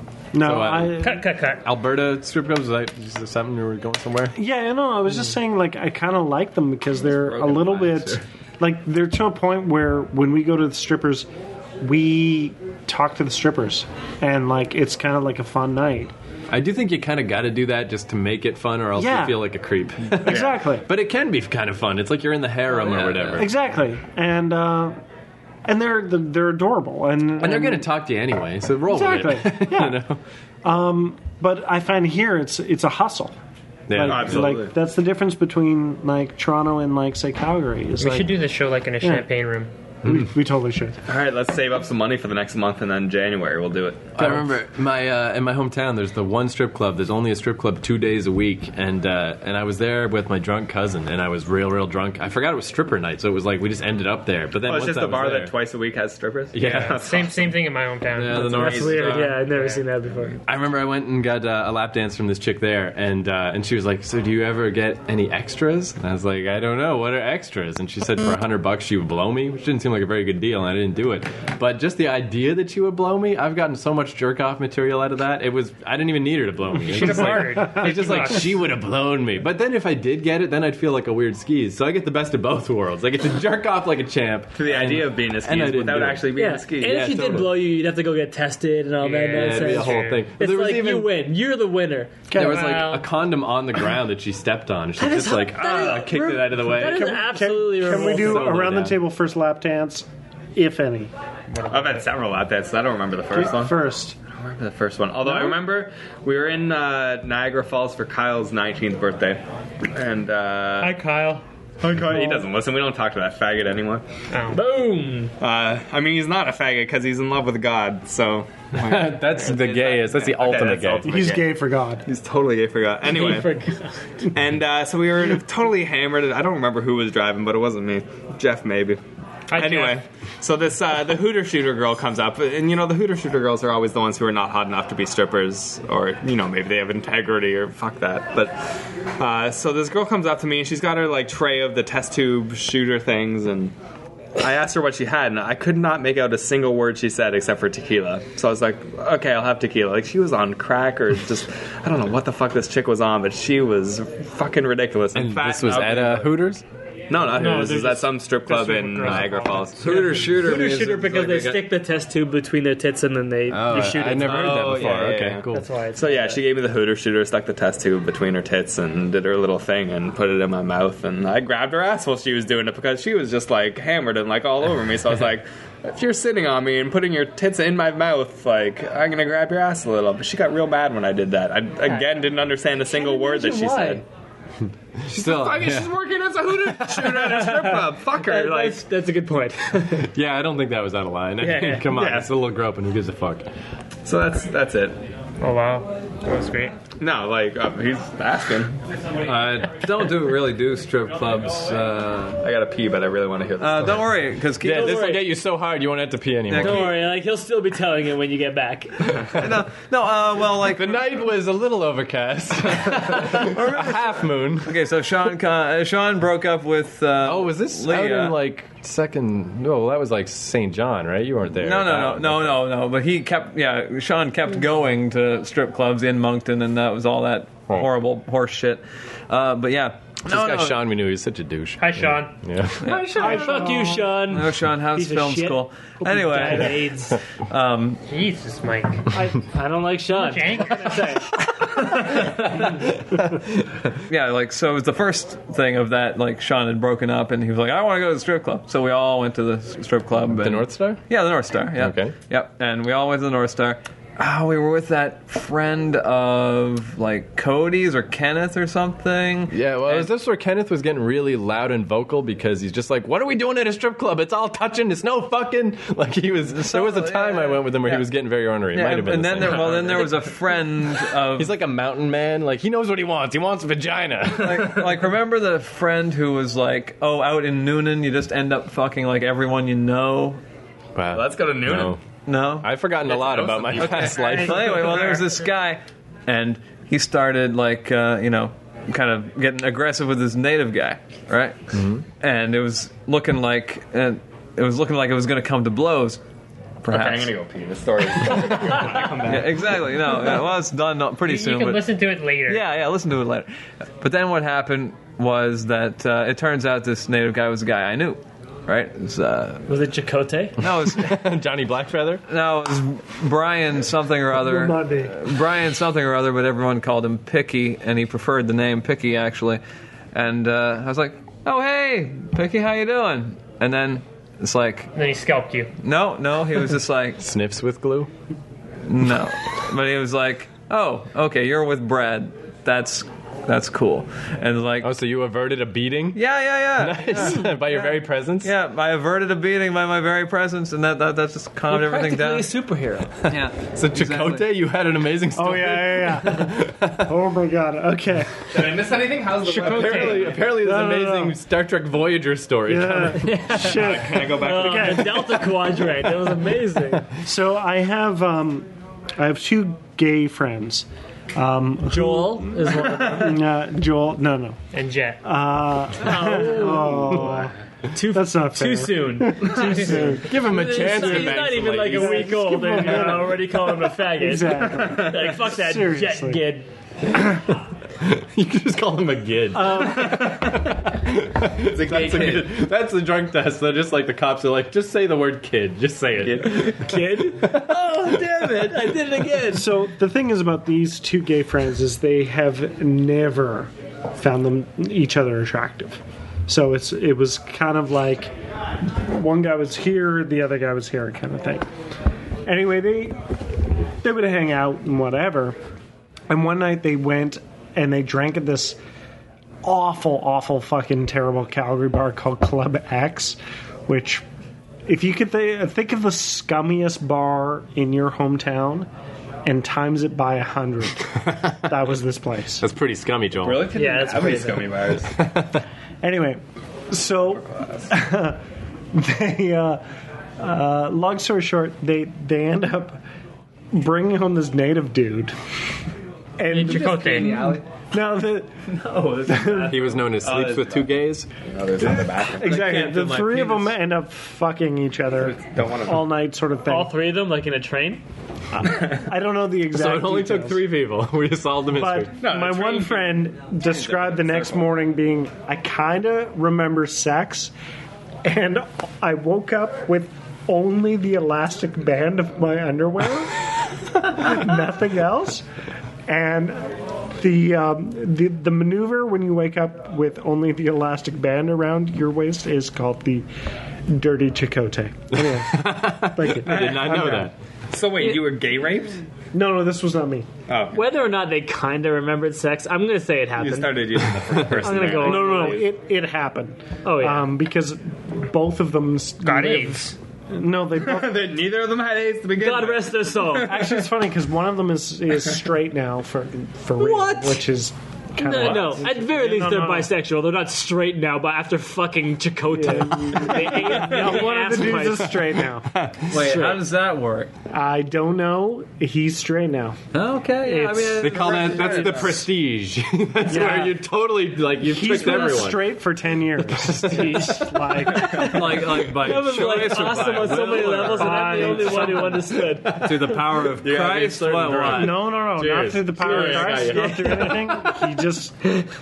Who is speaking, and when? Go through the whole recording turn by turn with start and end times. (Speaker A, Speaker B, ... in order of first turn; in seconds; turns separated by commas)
Speaker A: 0.3-1.2, Speaker B: 0.4-4.4, Speaker C: 1.0-1.6, Speaker A: 4.3-11.3, Speaker D: 7.2-8.0, Speaker E: 7.6-8.0, Speaker A: 11.8-16.1, Speaker B: 16.5-23.6, Speaker A: 19.0-19.4, Speaker A: 20.2-20.9, Speaker D: 20.3-20.6, Speaker E: 22.9-23.4, Speaker A: 23.4-25.0, Speaker A: 25.7-27.9, Speaker B: 27.4-30.2, Speaker A: 28.9-30.0, Speaker A: 30.6-33.4, Speaker B: 33.9-34.6, Speaker A: 33.9-38.4, Speaker D: 34.0-34.7, Speaker C: 38.0-39.7, Speaker A: 40.0-41.0, Speaker D: 41.1-44.4, Speaker B: 44.2-55.5, Speaker D: 54.6-57.5, Speaker B: 56.5-57.1, Speaker C: 56.8-59.8, Speaker B: 58.1-59.4, Speaker F: 58.4-60.4, Speaker D: 58.5-59.1, Speaker B: 60.5-87.6, Speaker C: 76.8-78.6, Speaker A: 77.3-77.6, Speaker D: 84.5-87.4, Speaker F: 86.4-92.2, Speaker C: 89.0-90.3, Speaker B: 89.3-91.1, Speaker A: 92.3-92.7, Speaker B: 92.3-99.0, Speaker C: 92.4-93.1, Speaker F: 95.0-98.7, Speaker A: 96.7-101.1, Speaker C: 101.5-102.0, Speaker D: 101.7-103.8, Speaker A: 103.3-104.2, Speaker D: 104.3-111.0, Speaker A: 105.3-105.5, Speaker C: 110.8-111.4, Speaker D: 111.8-114.1, Speaker C: 114.3-114.6, Speaker F: 114.5-115.3, Speaker D: 115.4-121.5, Speaker B: 118.7-121.3, Speaker A: 121.0-122.1, Speaker D: 122.1-123.5, Speaker F: 123.1-124.0, Speaker D: 124.3-129.0, Speaker C: 129.5-129.9, Speaker D: 129.5-138.6, Speaker D: 139.2-143.8, Speaker D: 144.4-156.3, Speaker B: 155.1-156.6, Speaker D: 157.1-160.3, Speaker C: 157.3-160.1, Speaker E: 159.8-161.6, Speaker F: 160.3-166.4, Speaker B: 163.5-165.6, Speaker D: 164.2-184.0, Speaker F: 182.9-184.0, Speaker B: 185.0-185.9, Speaker D: 185.1-188.8, Speaker B: 186.5-187.2, Speaker F: 187.1-190.1, Speaker B: 189.9-193.5, Speaker F: 191.4-191.9, Speaker D: 191.9-192.3, Speaker D: 194.1-195.0, Speaker C: 195.4-196.8, Speaker D: 197.0-198.8, Speaker E: 199.2-202.4, Speaker D: 202.4-204.0, Speaker E: 203.6-205.1, Speaker B: 204.6-206.9, Speaker F: 204.7-205.2, Speaker E: 206.5-207.0, Speaker F: 206.6-209.1, Speaker B: 209.2-209.6, Speaker E: 209.2-211.1, Speaker B: 210.6-214.8, Speaker E: 213.3-218.4, Speaker B: 217.2-222.6, Speaker E: 221.6-230.8, Speaker B: 230.2-233.4, Speaker C: 231.8-232.3, Speaker E: 232.8-233.3, Speaker F: 232.8-237.2, Speaker A: 233.1-234.2, Speaker E: 234.2-236.9, Speaker E: 237.4-238.0, Speaker C: 238.1-239.1, Speaker F: 239.1-241.3, Speaker C: 240.1-241.1, Speaker B: 242.1-243.2, Speaker E: 244.1-260.1, Speaker B: 250.4-251.0, Speaker B: 251.8-252.2, Speaker B: 259.5-275.0, Speaker E: 266.5-268.1, Speaker E: 268.7-271.5, Speaker E: 274.4-280.4, Speaker B: 281.0-282.0, Speaker D: 281.1-282.0, Speaker E: 282.3-296.2, Speaker B: 282.6-285.0, Speaker D: 283.8-284.1, Speaker B: 291.7-292.1, Speaker E: 296.8-297.3, Speaker D: 296.9-299.9, Speaker E: 299.1-301.9, Speaker C: 301.3-302.6, Speaker E: 302.5-303.5, Speaker E: 304.0-309.7, Speaker F: 309.7-310.6, Speaker E: 310.6-311.2, Speaker B: 310.6-312.2, Speaker E: 312.3-319.6, Speaker A: 314.4-315.2, Speaker E: 320.1-324.9, Speaker C: 324.9-325.7, Speaker E: 325.8-327.2, Speaker B: 327.2-328.1, Speaker E: 328.9-334.9, Speaker B: 334.8-336.2, Speaker E: 336.1-337.5, Speaker B: 336.8-338.5, Speaker E: 338.4-342.5, Speaker F: 341.7-343.4, Speaker E: 343.3-344.4, Speaker B: 343.7-347.2, Speaker A: 345.4-348.9, Speaker D: 348.5-350.5, Speaker B: 349.4-353.4, Speaker A: 349.5-351.4, Speaker A: 352.7-355.6, Speaker F: 353.2-357.1, Speaker D: 353.6-355.2, Speaker A: 357.2-364.6, Speaker F: 361.9-363.4, Speaker C: 364.7-365.2, Speaker A: 365.2-367.5, Speaker F: 366.0-376.7, Speaker A: 368.1-376.4, Speaker B: 370.2-372.6, Speaker D: 374.8-375.1, Speaker B: 378.0-388.9, Speaker A: 379.5-380.6, Speaker D: 381.6-382.5, Speaker D: 386.2-386.7, Speaker F: 386.6-389.7, Speaker A: 389.5-401.7, Speaker A: 402.5-403.2, Speaker A: 404.0-405.6, Speaker A: 406.3-408.8, Speaker A: 409.6-414.2, Speaker A: 414.9-418.9, Speaker A: 419.5-422.6, Speaker B: 422.6-423.7, Speaker D: 423.4-425.2, Speaker F: 423.7-424.8, Speaker A: 426.0-428.4, Speaker D: 427.2-427.9, Speaker A: 428.9-429.8, Speaker A: 430.4-433.0, Speaker A: 433.7-435.4, Speaker A: 436.4-438.6, Speaker C: 436.5-437.6, Speaker D: 436.9-437.6, Speaker E: 438.9-439.9, Speaker A: 439.3-439.9, Speaker B: 439.6-441.3, Speaker D: 440.0-440.9, Speaker D: 441.4-442.6, Speaker A: 441.8-446.9, Speaker E: 442.4-443.7, Speaker D: 445.2-446.1, Speaker F: 446.6-448.0, Speaker A: 448.5-450.6, Speaker D: 448.6-449.0, Speaker B: 449.7-452.1, Speaker A: 451.7-457.5, Speaker D: 452.2-454.6, Speaker A: 458.2-465.5, Speaker A: 466.1-473.3, Speaker A: 473.9-476.6, Speaker B: 475.1-477.4, Speaker D: 476.4-479.1, Speaker A: 479.3-480.3, Speaker D: 480.5-480.8, Speaker F: 480.7-483.9, Speaker D: 483.4-485.7, Speaker F: 484.6-485.7, Speaker A: 484.9-491.3, Speaker F: 486.9-487.3, Speaker C: 489.2-489.9, Speaker D: 490.8-493.9, Speaker F: 492.4-493.7, Speaker A: 493.4-499.9, Speaker F: 496.8-497.4, Speaker F: 498.2-505.2, Speaker A: 502.5-505.7, Speaker D: 505.8-506.1, Speaker E: 506.1-507.3, Speaker F: 506.1-506.6, Speaker A: 507.5-509.8, Speaker E: 509.9-512.1, Speaker A: 510.5-511.0, Speaker B: 511.0-515.7, Speaker D: 511.1-512.2, Speaker A: 513.3-513.8, Speaker A: 514.6-518.6, Speaker B: 516.4-517.7, Speaker F: 516.8-522.8, Speaker E: 518.1-521.7, Speaker A: 520.8-522.4, Speaker B: 521.4-527.7, Speaker E: 522.7-525.0, Speaker A: 524.7-528.5, Speaker F: 526.0-527.7